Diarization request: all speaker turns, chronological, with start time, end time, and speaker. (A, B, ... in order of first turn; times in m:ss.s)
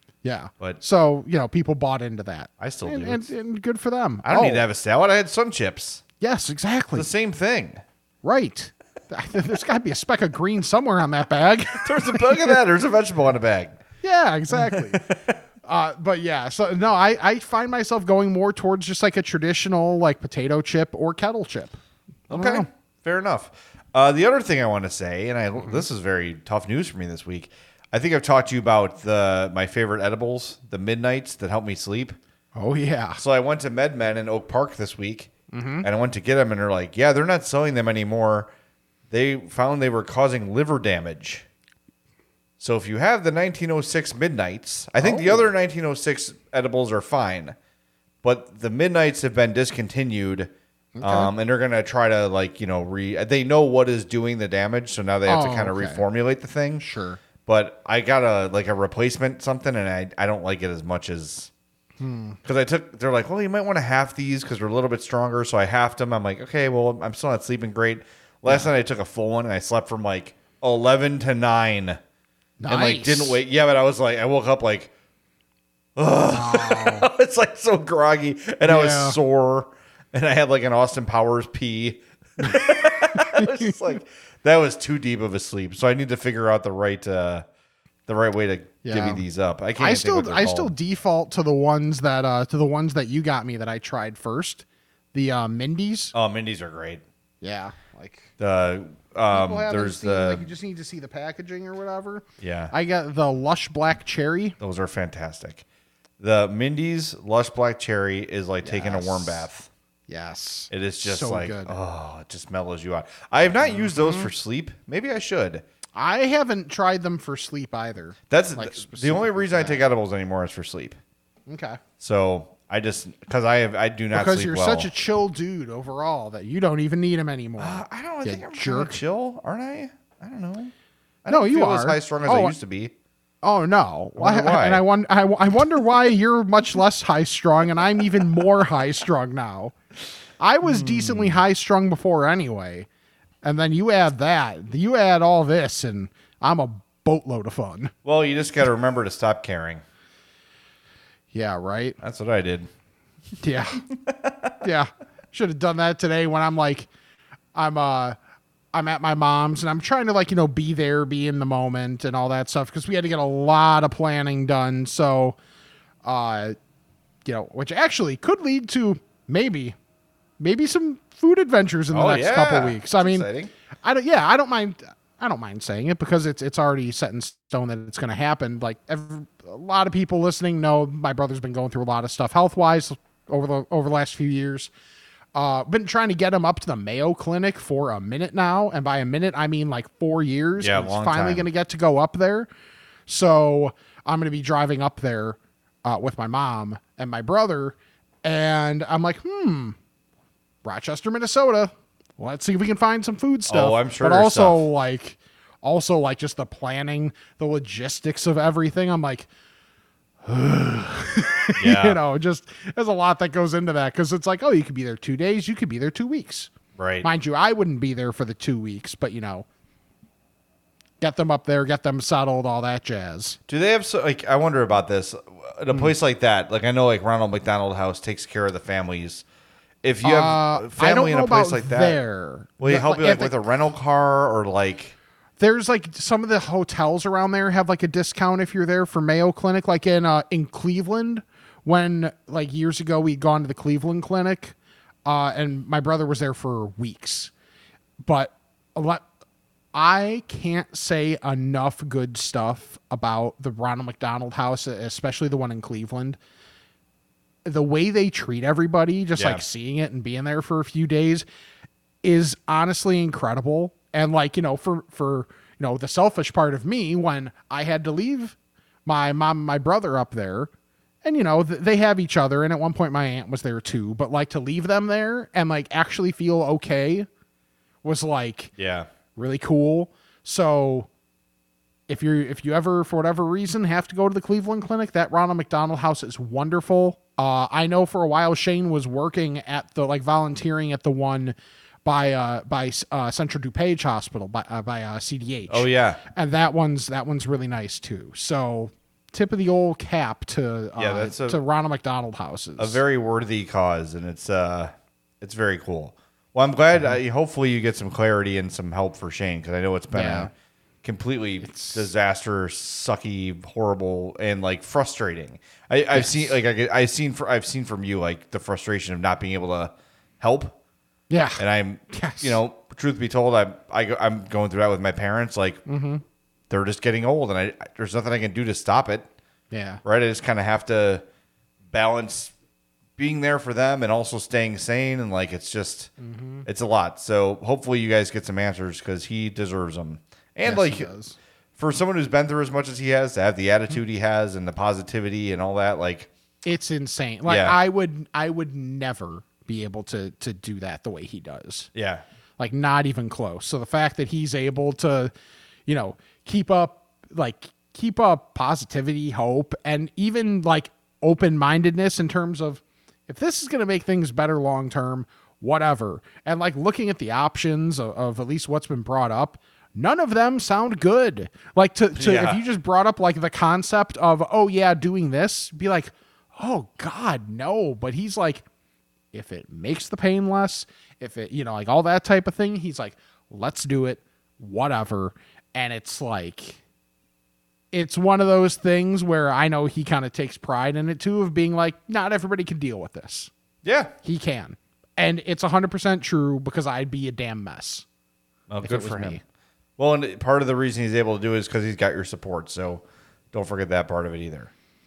0:00.2-0:04.6 A
0:02.6-0:03.3 B
0:04.2-0:06.0 B
0:06.2-0:07.1 A
0:07.0-0:07.8 B
0:08.2-0:12.6 A
0:11.8-0:13.8 B
0:14.0-0:15.0 A
0:14.5-0:15.4 B
0:15.6-0:21.8 A
0:22.3-0:22.7 A
0:22.3-0:32.2 B
0:25.6-0:25.8 A
0:32.6-0:33.2 A
0:33.2-0:35.3 B
0:35.5-0:35.9 A
0:35.8-0:38.5 B
0:39.1-0:41.4 B
0:42.6-0:47.6 B
0:45.0-0:45.5 A
0:48.2-0:56.9 B
0:51.0-0:51.3 A
0:55.3-0:56.0 A
0:56.8-0:57.2 A
0:57.5-1:01.5 B
1:02.0-1:02.4 A
1:02.4-1:12.0 B
1:12.6-1:13.4 A
1:12.7-1:14.9 B
1:16.0-1:27.5 B
1:16.3-1:17.1 A
1:18.6-1:19.2 A
1:22.4-1:23.7 A
1:28.1-1:30.7 B
1:28.8-1:29.2 A
1:29.8-1:36.1 A
1:36.1-1:37.0 B
1:37.4-1:38.3 A
1:38.4-1:40.5 B
1:39.3-1:44.6 A
1:42.4-1:42.7 B
1:44.6-1:45.6 B
1:46.2-1:49.7 B
1:48.6-1:49.5 A
1:50.1-1:51.8 A
1:50.7-1:55.6 B
1:53.6-1:54.3 A
1:56.0-1:59.8 A
1:58.3-2:01.0 B
2:01.5-2:01.8 A
2:02.0-2:04.9 B
2:04.1-2:09.0 A
2:07.6-2:10.7 B
2:11.2-2:12.9 B
2:11.3-2:12.6 A
2:13.4-2:19.8 A
2:14.2-2:14.8 B
2:20.4-2:22.9 A
2:20.6-2:21.4 B
2:23.4-2:27.9 A
2:28.0-2:29.8 B
2:31.3-2:32.0 A
2:32.0-2:32.7 B
2:33.4-2:33.8 A
2:34.1-2:34.5 B
2:34.6-2:36.9 A
2:37.6-2:38.2 A
2:38.7-2:45.4 A
2:46.0-2:46.6 A
2:47.2-2:49.8 A
2:50.4-2:53.3 A
2:51.9-2:53.5 B
2:53.8-3:04.7 A
3:05.3-3:12.5 A
3:10.6-3:11.5 B
3:13.1-3:19.8 A
3:20.6-3:29.3 A
3:23.5-3:24.7 B
3:30.2-3:36.5 A
3:31.6-3:32.0 B
3:36.8-3:37.1 B
3:37.0-3:39.5 A
3:41.0-3:43.4 A
3:43.5-3:49.2 B
3:49.8-3:52.0 B
3:50.0-3:53.3 A
3:52.6-3:55.0 B
3:55.4-4:04.6 A
4:05.1-4:07.3 A
4:08.0-4:09.0 A
4:09.7-4:16.2 A
4:17.4-4:21.2 A
4:19.2-4:19.4 B
4:22.0-4:30.5 A
4:31.0-4:37.1 A
4:37.8-4:38.5 A
4:38.6-4:38.9 B
4:39.2-4:40.9 A
4:41.9-5:02.8 A
4:55.5-4:56.0 B
5:00.8-5:01.4 B
5:02.6-5:10.3 B
5:09.9-5:10.3 A
5:10.8-5:20.6 B
5:11.4-5:11.9 A
5:15.9-5:16.3 A
5:21.1-5:22.4 A
5:21.4-5:25.6 B
5:25.7-5:26.0 A
5:26.5-5:29.1 B
5:29.5-5:29.8 A
5:29.8-5:31.0 B
5:31.7-5:32.3 B
5:33.0-5:35.9 B
5:36.0-5:36.5 A
5:36.4-5:40.9 B
5:40.4-5:41.2 A
5:41.6-5:46.1 B
5:46.4-5:51.7 A
5:47.3-5:47.6 B
5:51.8-5:52.0 B
5:52.4-5:55.1 A
5:55.7-6:18.4 A
6:12.0-6:12.4 B
6:19.1-6:26.6 A
6:27.7-6:33.3 A
6:33.6-6:33.9 B
6:34.0-6:37.8 A
6:38.5-6:39.2 B
6:38.6-6:39.2 A
6:39.8-6:44.5 B